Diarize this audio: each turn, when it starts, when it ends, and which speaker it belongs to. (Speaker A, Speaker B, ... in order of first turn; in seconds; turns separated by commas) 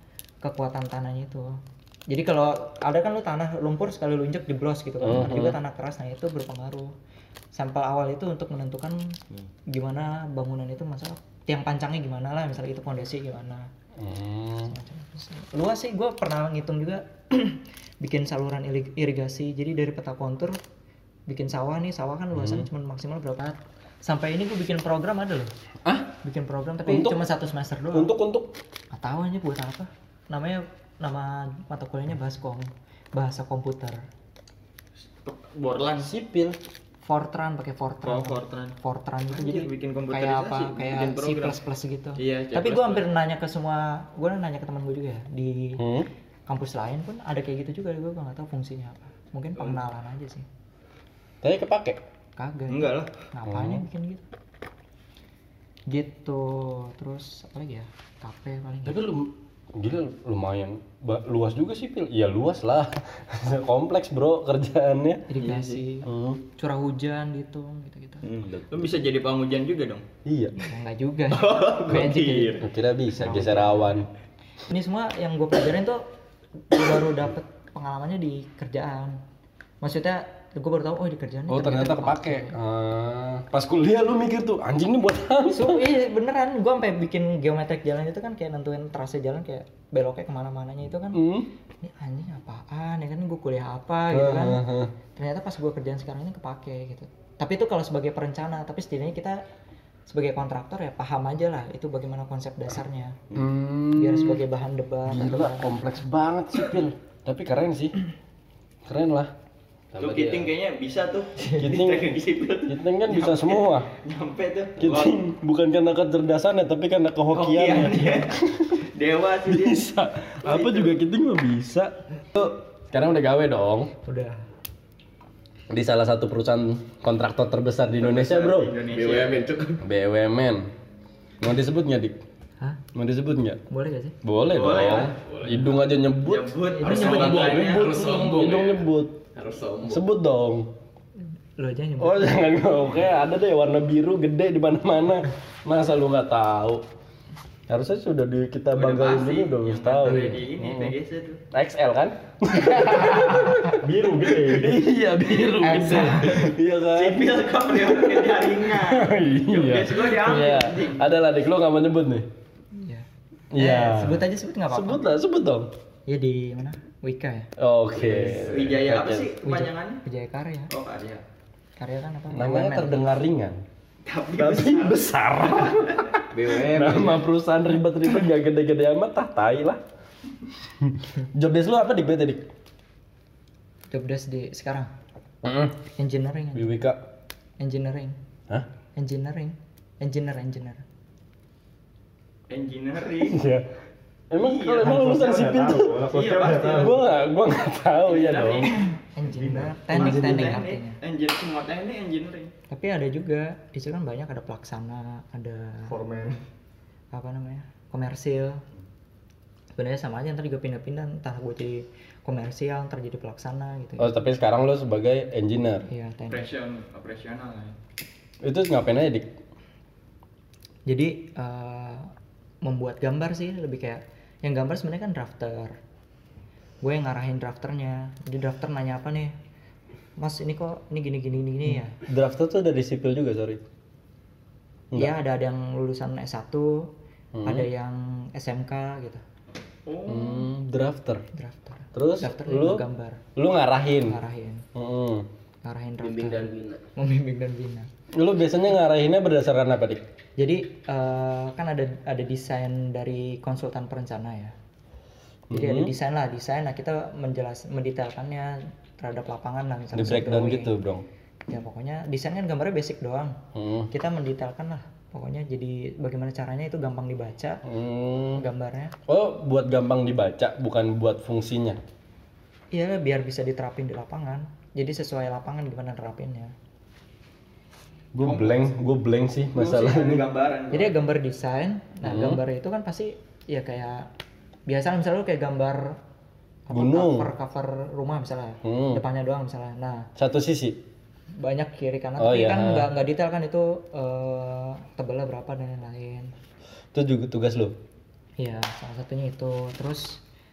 Speaker A: 0.4-6.9, Speaker B: 5.0-5.6, Speaker A: 7.5-13.7, Speaker B: 14.0-14.7, Speaker A: 14.7-20.6, Speaker A: 21.3-25.5, Speaker B: 22.3-22.7, Speaker B: 25.8-26.1, Speaker A: 26.2-28.1, Speaker B: 26.9-27.2, Speaker B: 27.9-28.5, Speaker A: 28.9-34.0, Speaker C: 35.2-36.1, Speaker B: 36.0-36.6, Speaker A: 37.0-45.8, Speaker C: 38.0-38.8, Speaker C: 39.3-41.6, Speaker C: 42.2-43.0, Speaker B: 45.8-46.1, Speaker A: 46.5-50.5, Speaker B: 51.4-52.0, Speaker A: 52.4-54.2, Speaker C: 52.7-53.1, Speaker B: 53.5-53.8, Speaker A: 55.9-59.1, Speaker B: 58.8-66.4, Speaker A: 65.3-68.2, Speaker D: 68.2-68.7, Speaker C: 68.7-70.0, Speaker B: 70.2-70.5, Speaker A: 70.6-74.0, Speaker C: 71.3-72.6, Speaker B: 72.6-74.1, Speaker A: 74.6-76.0, Speaker A: 76.7-79.2, Speaker A: 79.8-82.5, Speaker B: 81.5-85.8, Speaker A: 85.5-91.2, Speaker B: 91.1-91.5, Speaker A: 91.8-94.6, Speaker B: 94.1-94.9, Speaker A: 95.1-99.4, Speaker A: 100.1-103.2, Speaker B: 103.3-104.4, Speaker A: 103.9-105.8, Speaker B: 105.1-108.0, Speaker B: 108.8-109.3, Speaker E: 109.9-110.5, Speaker C: 110.0-115.2, Speaker B: 111.6-113.9, Speaker B: 114.8-118.7, Speaker C: 117.3-119.9, Speaker B: 119.5-123.9, Speaker C: 120.4-120.9, Speaker A: 124.0-124.4, Speaker B: 125.7-128.7, Speaker C: 128.0-129.4, Speaker E: 128.9-129.8, Speaker B: 129.8-130.7, Speaker B: 131.4-132.2, Speaker B: 132.9-133.6, Speaker A: 133.7-134.1, Speaker B: 134.2-139.2, Speaker C: 134.5-135.1, Speaker E: 134.6-135.7, Speaker C: 136.2-137.9, Speaker A: 136.7-137.7, Speaker E: 136.8-140.0, Speaker B: 139.9-140.7, Speaker A: 141.6-142.4, Speaker B: 142.0-146.8, Speaker B: 147.7-150.9, Speaker C: 148.7-151.4, Speaker B: 151.5-162.3, Speaker D: 153.5-154.8, Speaker A: 155.6-156.5, Speaker C: 156.9-161.1, Speaker A: 162.7-165.0, Speaker B: 163.5-165.7, Speaker A: 166.1-167.5, Speaker B: 167.6-169.3, Speaker E: 167.9-168.8, Speaker C: 168.5-170.0, Speaker A: 169.4-170.7, Speaker C: 170.7-171.2, Speaker A: 171.8-173.0, Speaker B: 172.3-173.6, Speaker C: 174.0-176.1, Speaker B: 174.3-179.8, Speaker E: 176.3-177.2, Speaker B: 180.8-182.5, Speaker A: 183.9-184.9, Speaker B: 185.4-185.8, Speaker A: 186.0-186.8, Speaker B: 186.5-187.0, Speaker A: 187.6-188.2, Speaker A: 188.9-190.8, Speaker C: 192.5-193.4, Speaker B: 193.2-193.7, Speaker B: 194.3-196.1, Speaker C: 194.4-195.3, Speaker D: 194.8-196.9, Speaker C: 196.0-197.1, Speaker B: 196.7-198.8, Speaker C: 198.0-198.9, Speaker A: 199.1-201.0, Speaker D: 199.2-199.8, Speaker C: 199.9-202.5, Speaker B: 199.9-200.5, Speaker A: 202.7-205.9, Speaker D: 205.9-206.4, Speaker A: 207.1-208.6, Speaker A: 209.8-214.1, Speaker B: 214.0-215.9, Speaker A: 215.9-216.5, Speaker C: 216.3-217.8, Speaker B: 218.4-219.3, Speaker A: 220.9-222.1, Speaker A: 222.6-225.8, Speaker A: 226.8-229.3, Speaker A: 230.2-231.9, Speaker B: 231.7-233.6, Speaker A: 234.9-236.9, Speaker B: 237.3-237.7, Speaker A: 237.4-239.2, Speaker C: 239.8-240.5, Speaker B: 240.1-241.2, Speaker A: 241.3-243.2, Speaker B: 241.9-242.8, Speaker B: 243.3-244.2, Speaker A: 244.0-244.6, Speaker B: 244.7-245.3, Speaker A: 245.6-247.9, Speaker E: 246.0-246.8, Speaker B: 248.1-250.0, Speaker A: 250.4-254.5, Speaker B: 255.5-255.9, Speaker A: 255.5-260.7, Speaker B: 259.9-261.0, Speaker A: 261.5-263.4, Speaker B: 263.5-263.9, Speaker A: 263.9-267.6, Speaker B: 267.6-268.4, Speaker A: 268.3-268.9, Speaker B: 269.1-271.8, Speaker A: 272.7-276.5, Speaker B: 278.1-280.3, Speaker C: 278.2-278.7, Speaker C: 279.5-280.9, Speaker A: 280.7-284.1, Speaker B: 282.0-282.4, Speaker A: 284.7-286.0, Speaker A: 286.7-290.1, Speaker B: 286.7-287.3, Speaker B: 288.6-289.0, Speaker B: 290.1-290.8, Speaker A: 291.4-296.3, Speaker B: 292.2-292.9, Speaker B: 296.9-297.7, Speaker A: 298.4-300.2